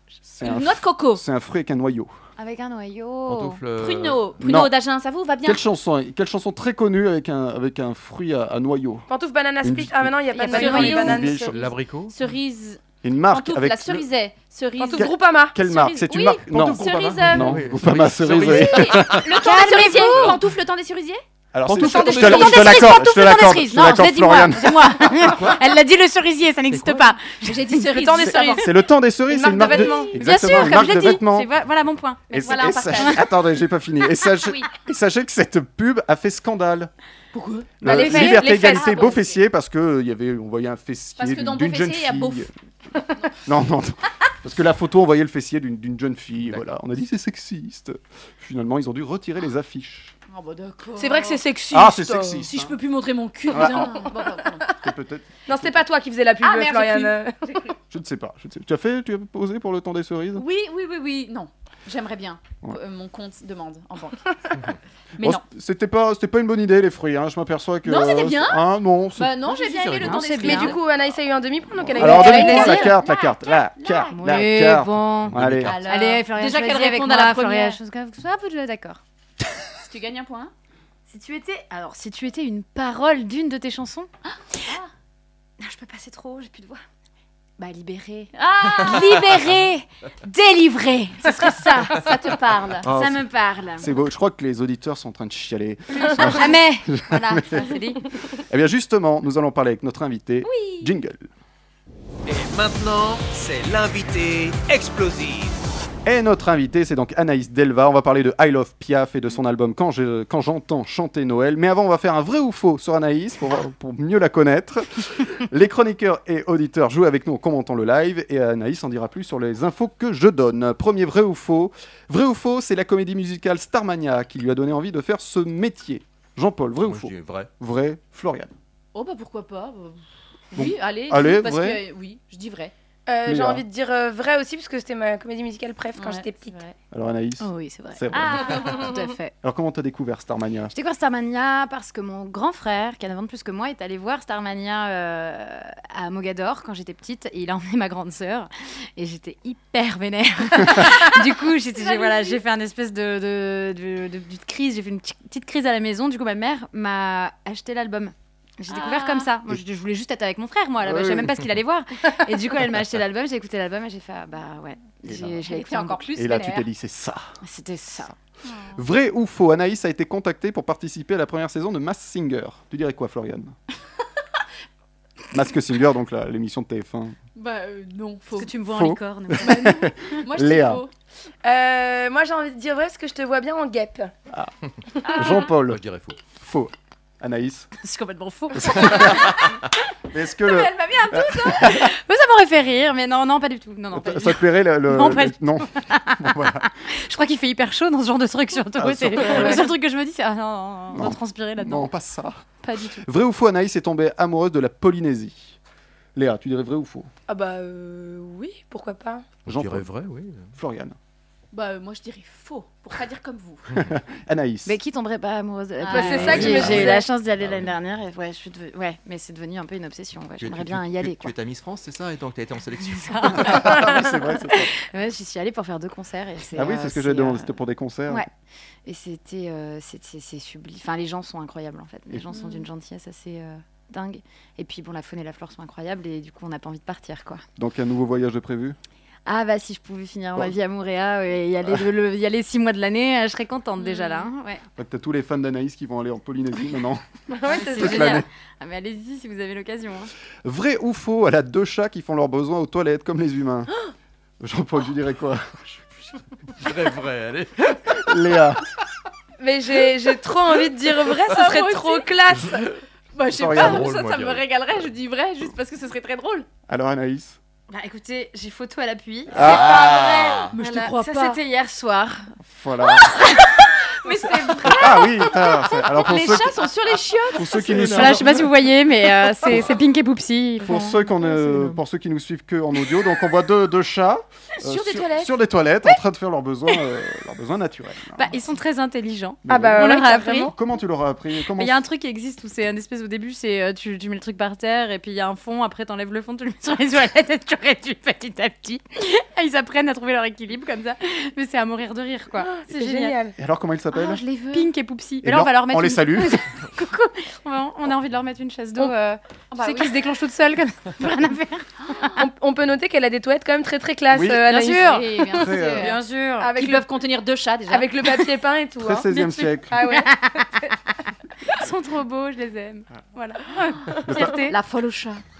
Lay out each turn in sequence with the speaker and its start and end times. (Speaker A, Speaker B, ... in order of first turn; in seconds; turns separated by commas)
Speaker A: 0.2-2.1, Speaker B: 0.4-1.2, Speaker C: 2.4-3.6, Speaker D: 3.3-4.3, Speaker B: 3.8-5.6, Speaker A: 4.4-4.7, Speaker A: 5.4-9.1, Speaker E: 9.1-11.5, Speaker A: 9.6-11.6, Speaker C: 10.3-11.1, Speaker B: 10.3-17.6, Speaker D: 11.5-12.1, Speaker A: 13.0-14.1, Speaker E: 14.8-15.6, Speaker A: 14.9-19.3, Speaker D: 16.5-19.2, Speaker B: 18.3-21.2, Speaker C: 19.3-20.4, Speaker A: 21.5-25.3, Speaker D: 21.6-22.4, Speaker B: 21.8-25.3, Speaker C: 22.0-28.0, Speaker D: 25.1-25.6, Speaker B: 27.3-28.6, Speaker E: 27.9-28.7, Speaker A: 28.5-31.5, Speaker E: 29.3-30.2, Speaker B: 29.6-30.2, Speaker C: 30.1-33.2, Speaker B: 32.3-33.2, Speaker A: 32.3-36.9, Speaker B: 34.4-34.7, Speaker B: 37.3-39.4, Speaker A: 37.8-42.5, Speaker E: 37.8-39.1, Speaker B: 41.2-42.5, Speaker A: 43.4-50.1, Speaker B: 50.3-51.4, Speaker E: 51.0-52.5, Speaker A: 51.7-52.8, Speaker B: 52.5-54.6, Speaker A: 53.5-54.1, Speaker A: 54.7-55.8, Speaker E: 55.5-57.4, Speaker B: 56.4-57.7, Speaker A: 57.9-60.4, Speaker B: 60.3-64.2, Speaker B: 65.2-65.4, Speaker A: 65.2-69.4, Speaker B: 67.8-70.8, Speaker D: 69.5-70.2, Speaker C: 70.0-70.8, Speaker E: 70.4-72.9, Speaker A: 71.9-75.7, Speaker B: 71.9-74.3, Speaker C: 72.1-72.9, Speaker C: 74.1-79.0, Speaker D: 75.2-75.9, Speaker B: 75.6-77.8, Speaker B: 79.8-80.5, Speaker C: 81.1-84.1, Speaker B: 84.2-84.9, Speaker C: 85.6-86.8, Speaker C: 87.6-93.9, Speaker B: 88.3-89.3, Speaker B: 91.8-92.9, Speaker A: 92.8-93.2, Speaker A: 93.8-97.7, Speaker C: 96.0-98.0, Speaker A: 98.5-101.3, Speaker B: 100.4-100.9, Speaker F: 102.3-105.6, Speaker A: 106.0-128.5, Speaker D: 126.8-127.5, Speaker B: 128.9-130.0, Speaker B: 130.5-132.7, Speaker A: 130.5-131.8, Speaker E: 133.1-136.6, Speaker A: 133.2-133.6, Speaker B: 135.9-136.7, Speaker A: 136.9-138.9, Speaker C: 137.4-139.3, Speaker B: 138.1-138.9, Speaker A: 139.4-140.7, Speaker C: 140.7-166.1, Speaker B: 151.8-152.4, Speaker B: 158.7-159.3, Speaker A: 160.8-161.3, Speaker A: 165.1-165.4, Speaker B: 165.4-166.7, Speaker A: 166.2-167.3, Speaker C: 167.4-168.1, Speaker A: 168.8-173.5, Speaker A: 175.3-177.2, Speaker B: 177.3-178.5, Speaker C: 178.3-179.9, Speaker A: 178.7-180.8, Speaker B: 179.4-180.9, Speaker E: 181.4-184.1, Speaker A: 185.1-185.8, Speaker D: 185.7-186.2, Speaker A: 186.3-187.7, Speaker C: 187.8-189.4, Speaker A: 188.5-189.4, Speaker A: 190.1-191.9, Speaker B: 190.4-191.8, Speaker C: 191.4-201.9, Speaker A: 193.9-196.7, Speaker A: 198.7-199.7, Speaker A: 200.9-205.6, Speaker C: 202.6-203.0, Speaker A: 206.1-207.1, Speaker E: 207.3-209.2, Speaker A: 209.4-209.9, Speaker D: 209.4-210.5, Speaker A: 210.5-211.0, Speaker B: 211.5-213.7, Speaker A: 213.8-214.8, Speaker C: 214.7-221.3, Speaker B: 215.8-216.7, Speaker E: 215.9-217.1, Speaker A: 216.2-216.9, Speaker D: 216.3-217.7, Speaker D: 220.4-223.8, Speaker C: 223.0-227.5, Speaker A: 223.3-224.7, Speaker A: 226.5-228.2, Speaker C: 228.8-237.4, Speaker B: 232.3-232.6, Speaker A: 237.6-238.8, Speaker C: 239.2-244.6, Speaker A: 244.8-247.0, Speaker E: 247.3-248.2, Speaker C: 247.4-250.1, Speaker A: 247.6-248.3, Speaker A: 250.4-253.7, Speaker A: 254.4-256.1, Speaker D: 256.5-257.9, Speaker A: 257.9-258.6, Speaker E: 259.4-262.6, Speaker B: 261.2-262.1, Speaker B: 263.1-266.4, Speaker A: 263.3-263.9, Speaker D: 263.4-264.4, Speaker A: 266.7-267.4, Speaker C: 267.7-272.3, Speaker A: 269.3-269.8, Speaker D: 269.3-270.5, Speaker B: 270.5-271.4, Speaker A: 272.4-273.1, Speaker C: 272.8-275.8, Speaker B: 274.0-278.3, Speaker A: 274.6-276.7, Speaker A: 277.3-278.5, Speaker C: 277.7-281.7, Speaker A: 280.6-288.4, Speaker B: 284.6-285.4, Speaker C: 288.1-290.5, Speaker A: 289.4-291.8, Speaker E: 289.5-290.5, Speaker C: 291.4-303.1, Speaker E: 302.4-303.3, Speaker A: 303.4-304.2, Speaker B: 303.9-304.7, Speaker C: 304.5-312.1, Speaker A: 305.2-306.4, Speaker B: 309.5-309.9, Speaker B: 311.8-312.2, Speaker E: 312.2-314.9, Speaker A: 314.1-314.4, Speaker C: 314.5-316.5, Speaker B: 314.5-317.9, Speaker A: 315.3-315.9, Speaker E: 316.4-316.8, Speaker E: 317.7-320.7, Speaker A: 318.8-319.8, Speaker C: 319.2-320.4, Speaker C: 321.5-324.5, Speaker E: 323.1-324.3, Speaker A: 324.1-324.3, Speaker B: 324.4-325.2